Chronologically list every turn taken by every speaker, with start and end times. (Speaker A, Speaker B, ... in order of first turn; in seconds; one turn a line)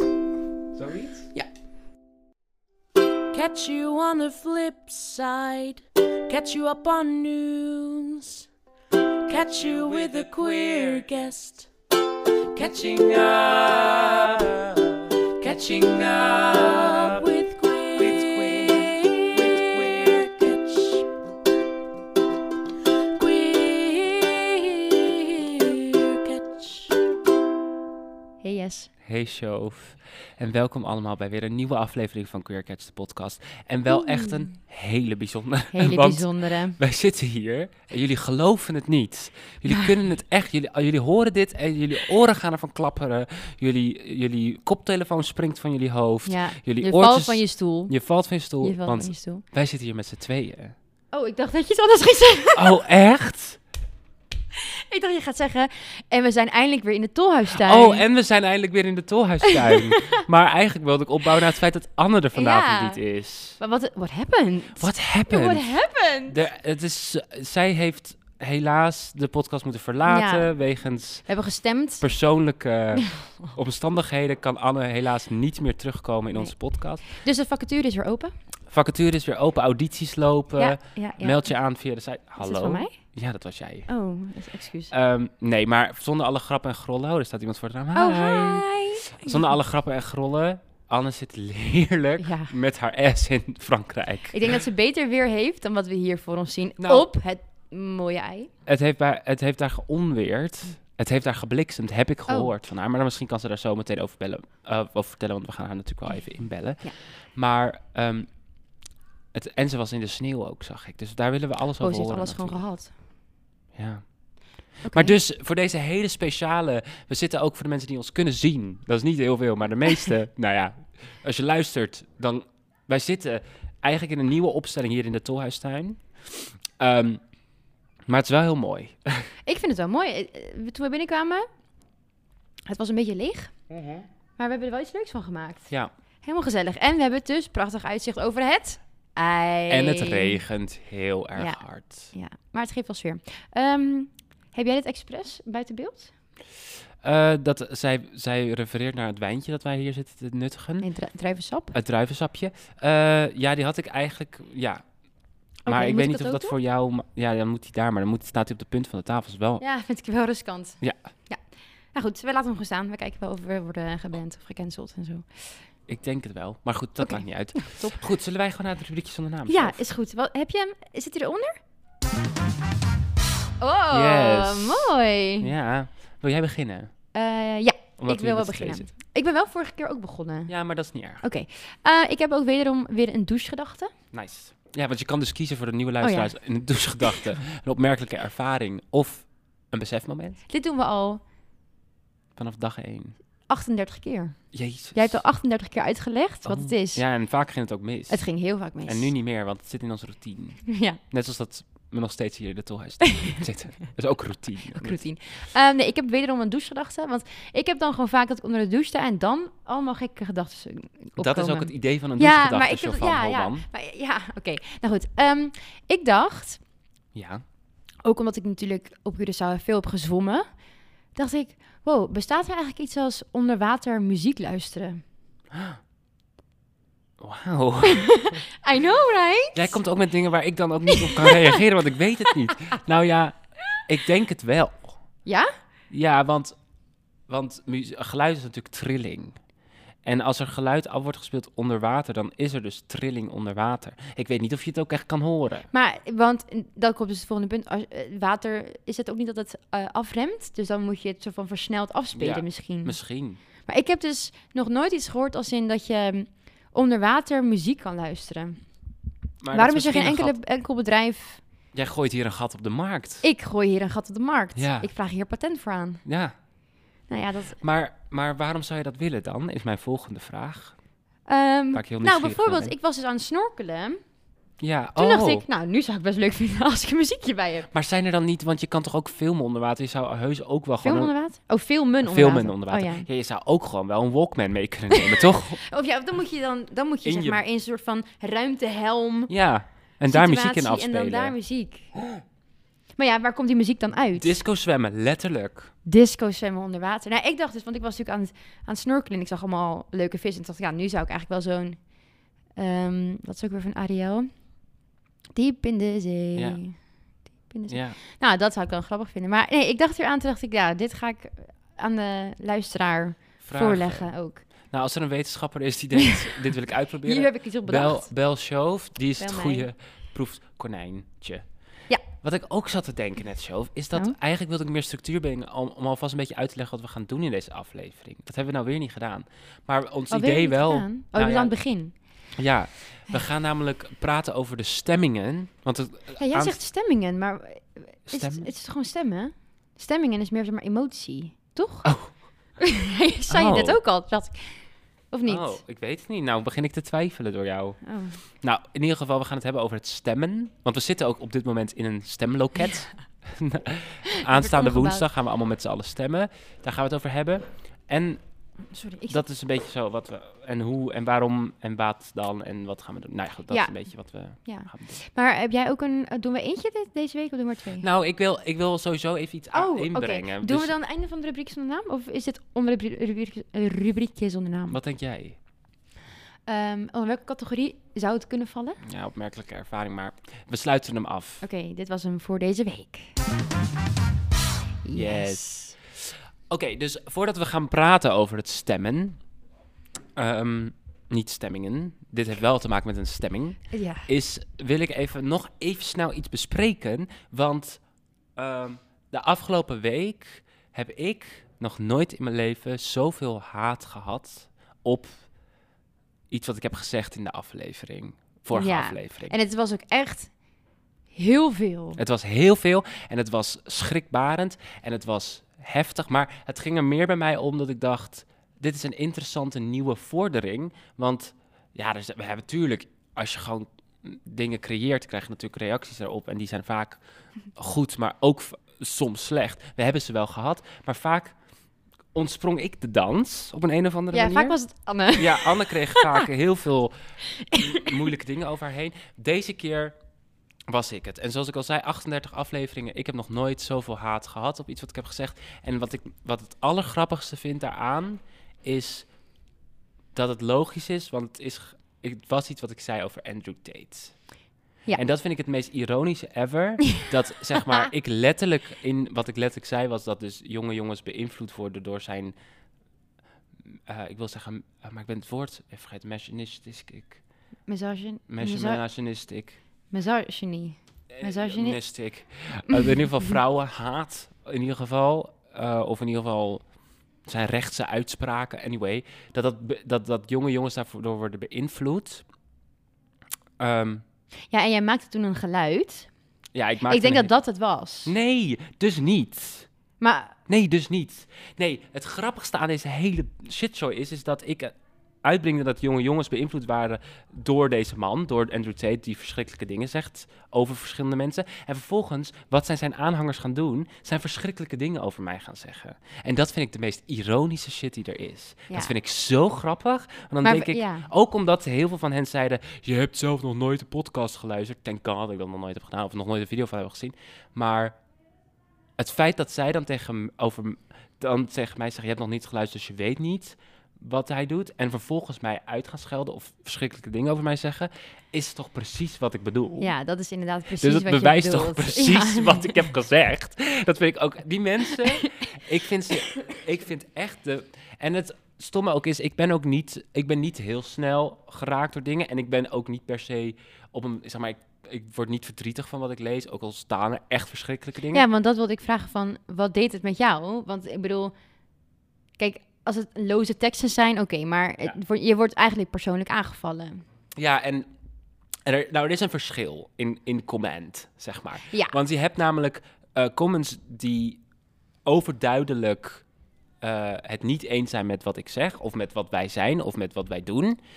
Speaker A: 0.8-1.3
Speaker B: 3.3-8.4
Speaker B: 9.3-11.7
Speaker C: 9.6-11.0
Speaker B: 12.5-13.6
Speaker A: 13.1-14.4
Speaker B: 15.4-21.0
Speaker A: 15.5-17.1
Speaker C: 18.0-18.9
Speaker C: 19.5-19.8
Speaker B: 23.1-26.9
Speaker D: 28.4-28.9
Speaker C: 29.0-50.7
Speaker D: 33.9-34.5
Speaker D: 35.7-36.8
Speaker D: 46.2-47.9
Speaker D: 48.6-49.4
Speaker D: 51.1-52.8
Speaker C: 52.5-53.6
Speaker D: 54.6-58.0
Speaker C: 57.5-63.6
Speaker D: 59.5-60.2
Speaker D: 62.3-63.0
Speaker D: 63.6-66.4
Speaker C: 64.8-71.2
Speaker D: 70.1-70.5
Speaker D: 71.2-72.0
Speaker C: 72.0-77.0
Speaker D: 73.0-73.3
Speaker D: 76.3-78.3
Speaker C: 78.7-83.9
Speaker D: 80.5-81.5
Speaker D: 82.4-83.0
Speaker D: 83.9-84.9
Speaker C: 84.9-94.5
Speaker D: 87.9-89.5
Speaker D: 92.2-92.5
Speaker D: 94.3-98.5
Speaker C: 96.8-97.1
Speaker C: 98.7-108.3
Speaker C: 109.3-112.6
Speaker D: 111.8-112.9
Speaker C: 113.7-114.1
Speaker C: 114.7-127.2
Speaker D: 114.8-115.1
Speaker C: 128.1-129.3
Speaker D: 129.4-131.5
Speaker D: 132.7-133.5
Speaker C: 133.7-134.0
Speaker D: 134.4-135.7
Speaker D: 136.2-140.4
Speaker C: 139.7-142.1
Speaker D: 141.3-146.1
Speaker C: 147.0-150.9
Speaker D: 150.8-151.7
Speaker C: 151.7-154.8
Speaker D: 155.6-156.6
Speaker C: 155.7-159.6
Speaker D: 159.6-161.4
Speaker D: 161.9-165.4
Speaker C: 165.9-169.8
Speaker D: 167.0-168.0
Speaker D: 169.5-171.6
Speaker D: 173.6-175.5
Speaker C: 173.9-174.9
Speaker C: 175.4-176.9
Speaker D: 177.1-180.5
Speaker C: 178.0-178.9
Speaker C: 180.5-181.2
Speaker D: 181.2-183.9
Speaker C: 184.1-190.4
Speaker D: 186.0-186.3
Speaker D: 190.5-191.2
Speaker C: 192.3-193.2
Speaker D: 193.5-194.4
Speaker C: 194.5-195.2
Speaker D: 194.9-197.0
Speaker C: 196.4-198.2
Speaker D: 198.1-199.1
Speaker C: 198.8-205.0
Speaker D: 200.7-201.0
Speaker D: 203.0-203.4
Speaker D: 204.7-216.6
Speaker C: 211.2-213.6
Speaker C: 217.1-217.4
Speaker D: 218.0-220.5
Speaker D: 221.1-225.0
Speaker C: 225.5-225.8
Speaker C: 227.2-228.2
Speaker D: 227.8-229.8
Speaker C: 229.5-233.3
Speaker D: 230.9-231.6
Speaker C: 233.9-235.0
Speaker C: 235.9-236.5
Speaker C: 237.3-239.4
Speaker C: 240.0-245.7
Speaker D: 245.7-252.9
Speaker C: 252.1-253.4
Speaker D: 253.6-258.7
Speaker C: 259.4-260.3
Speaker D: 259.5-261.4
Speaker C: 261.7-263.2
Speaker D: 263.2-266.0
Speaker C: 264.6-264.9
Speaker C: 266.0-266.3
Speaker D: 267.1-267.6
Speaker C: 267.6-270.7
Speaker D: 271.2-274.0
Speaker C: 271.7-272.7
Speaker C: 274.6-275.4
Speaker D: 275.0-277.7
Speaker C: 277.7-281.1
Speaker D: 280.8-283.1
Speaker C: 282.0-285.6
Speaker D: 284.9-289.3
Speaker C: 287.0-287.4
Speaker C: 289.3-291.3
Speaker D: 290.1-291.9
Speaker D: 293.0-294.4
Speaker C: 294.1-295.7
Speaker D: 295.8-302.0
Speaker D: 302.5-304.3
Speaker D: 305.3-306.8
Speaker C: 306.3-306.6
Speaker D: 307.4-314.4
Speaker C: 307.7-308.0
Speaker C: 313.4-314.1
Speaker C: 314.7-321.4
Speaker D: 316.0-316.2
Speaker D: 317.0-318.1
Speaker D: 319.2-319.7
Speaker C: 322.1-331.5
Speaker D: 330.1-331.9
Speaker C: 332.3-336.6
Speaker D: 336.2-341.9
Speaker C: 338.1-338.5
Speaker C: 341.8-342.1
Speaker D: 342.6-344.6
Speaker C: 343.3-343.8
Speaker D: 345.1-345.6
Speaker C: 345.2-347.8
Speaker D: 347.8-348.2
Speaker C: 348.4-358.2
Speaker D: 354.1-355.0
Speaker D: 358.7-359.2
Speaker C: 359.1-365.0
Speaker D: 363.5-363.7
Speaker D: 364.4-367.9
Speaker C: 367.8-370.7
Speaker D: 369.5-374.8
Speaker C: 374.7-375.4
Speaker D: 376.5-378.8
Speaker C: 378.8-381.4
Speaker D: 381.4-383.1
Speaker D: 384.8-385.8
Speaker C: 384.9-389.2
Speaker C: 390.1-397.8
Speaker D: 393.7-394.1
Speaker C: 398.4-405.2
Speaker C: 406.3-409.3
Speaker D: 408.5-410.3
Speaker D: 411.1-412.0
Speaker C: 411.9-427.0
Speaker C: 427.5-431.4
Speaker C: 432.1-434.6
Speaker D: 434.1-436.2
Speaker C: 435.2-436.9
Speaker D: 437.4-437.9
Speaker C: 437.5-439.9
Speaker C: 440.7-449.1
Speaker C: 450.1-454.1
Speaker C: 454.9-462.3
Speaker C: 463.7-467.2
Speaker D: 467.7-468.8
Speaker C: 468.3-469.6
Speaker D: 469.9-471.8
Speaker C: 471.1-476.6
Speaker C: 477.2-482.2
Speaker C: 483.6-484.0
Speaker D: 484.5-486.1
Speaker C: 486.5-487.3
Speaker D: 486.9-488.1
Speaker C: 488.0-489.7
Speaker D: 490.0-490.3
Speaker C: 490.5-518.0
Speaker D: 510.4-511.1
Speaker C: 519.0-529.9
Speaker D: 529.8-532.8
Speaker C: 530.8-548.2
Speaker D: 548.1-551.3
Speaker D: 552.4-557.0
Speaker C: 557.4-557.9
Speaker C: 558.6-564.4
Speaker D: 561.7-561.9
Speaker C: 565.0-566.2
Speaker C: 566.8-570.8